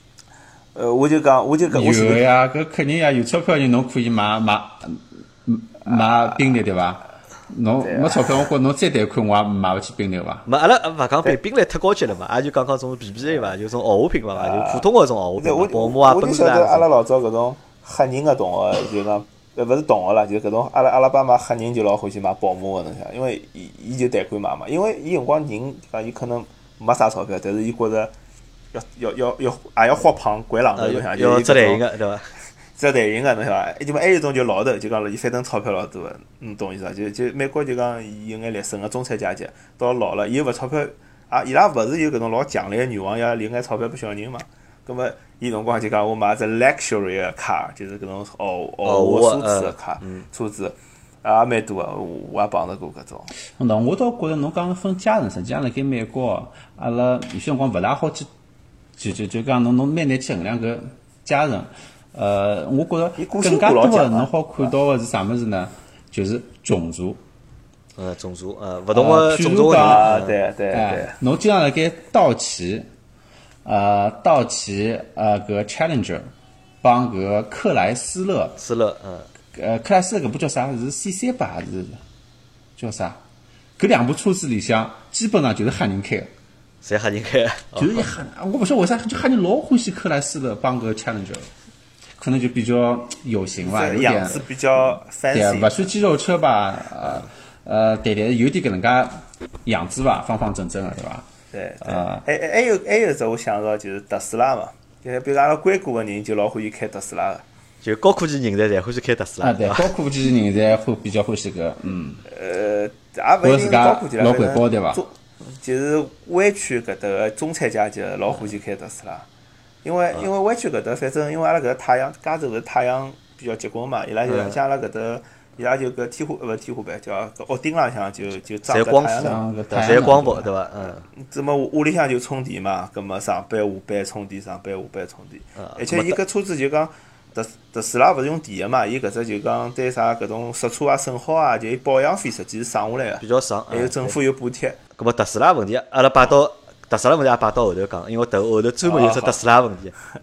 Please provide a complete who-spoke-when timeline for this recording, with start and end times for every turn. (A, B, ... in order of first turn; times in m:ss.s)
0:00.8-0:02.2 A
0:01.7-0:10.5 B
0:07.8-0:08.3 A
0:10.5-0:16.9 C
0:14.4-0:14.9 A
0:15.4-0:28.1 A
0:28.7-0:31.8 A
0:30.8-0:32.3 C
0:32.8-0:53.3 A
0:48.8-0:50.2 C
0:53.6-0:58.3 B
0:59.0-1:07.2 B
1:03.2-1:04.3 A
1:08.0-1:10.4 C
1:08.9-1:12.9 B
1:09.7-1:11.2 A
1:13.6-1:16.3 B
1:16.8-1:18.6 B
1:18.6-1:19.3 C
1:19.5-1:22.0 B
1:22.8-1:23.2 B
1:23.8-1:26.3 B
1:26.8-1:28.0 C
1:27.8-1:31.5 B
1:32.2-1:41.3 B
1:33.6-1:35.8 A
1:41.5-1:47.4 A
1:41.8-1:42.2 B
1:47.8-1:49.9 C
1:49.4-1:52.2 B
1:52.3-1:59.3 A
1:53.4-1:55.0 B
1:59.8-2:09.4 A
2:04.3-2:04.6 C
2:08.7-2:11.0 C
2:09.2-2:10.5 B
2:11.2-2:24.8 A
2:15.6-2:16.2 C
2:23.2-2:24.2 C
2:25.0-2:29.9 C
2:28.8-2:29.4 A